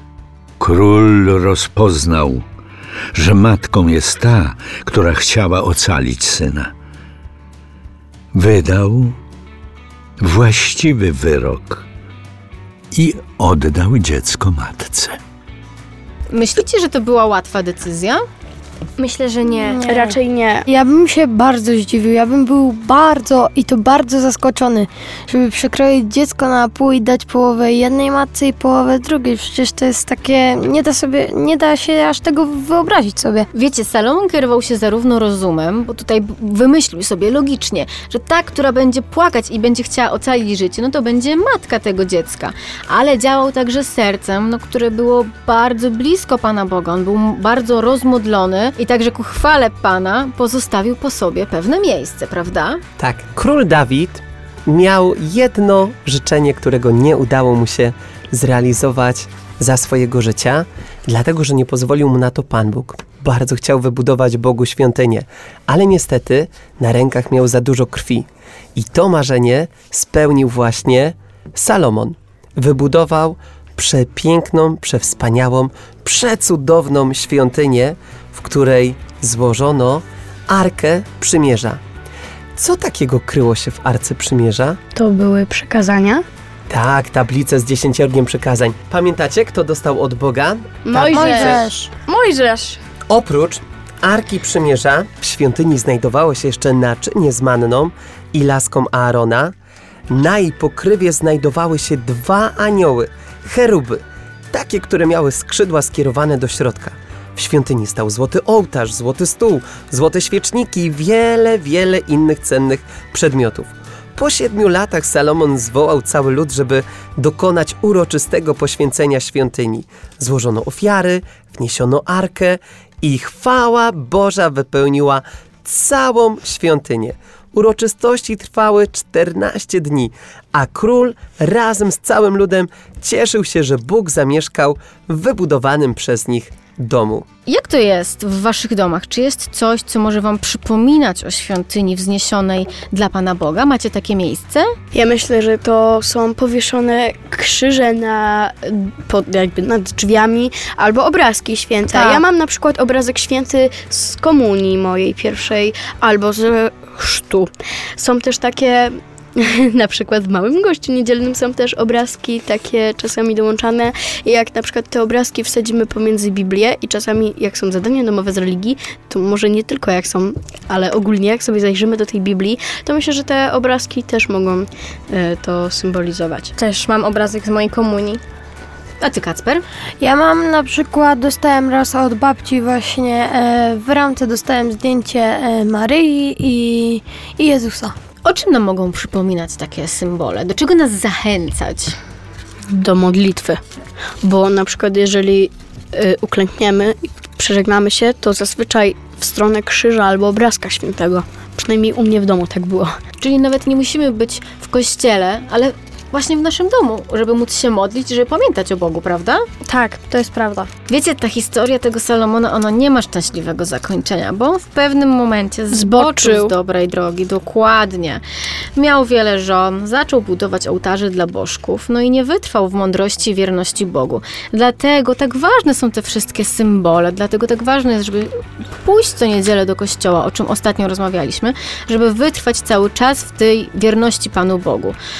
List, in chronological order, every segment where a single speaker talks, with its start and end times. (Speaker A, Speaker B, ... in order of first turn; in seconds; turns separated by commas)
Speaker A: 0.6-2.5, Speaker A: 3.1-6.7, Speaker A: 8.3-9.2, Speaker A: 10.2-11.8, Speaker A: 12.9-15.2, Speaker B: 16.3-18.2, Speaker B: 19.1-19.8, Speaker C: 19.7-20.1, Speaker D: 19.8-20.6, Speaker C: 20.7-33.5, Speaker B: 33.5-52.8, Speaker E: 53.0-81.8, Speaker E: 82.6-84.8, Speaker D: 85.0-86.2, Speaker E: 86.7-91.6, Speaker D: 90.9-91.8, Speaker C: 91.1-91.9, Speaker F: 92.2-92.5, Speaker E: 93.1-99.5, Speaker E: 100.1-137.3, Speaker B: 137.5-144.7, Speaker D: 144.9-176.5, Speaker F: 151.9-152.2, Speaker F: 176.6-178.2, Speaker B: 179.0-179.6, Speaker C: 180.0-187.9, Speaker B: 188.2-191.9, Speaker D: 192.7-193.6, Speaker D: 194.2-202.9, Speaker B: 203.2-209.4, Speaker F: 209.7-210.7, Speaker B: 210.9-218.2, Speaker D: 215.7-216.5, Speaker B: 218.8-235.0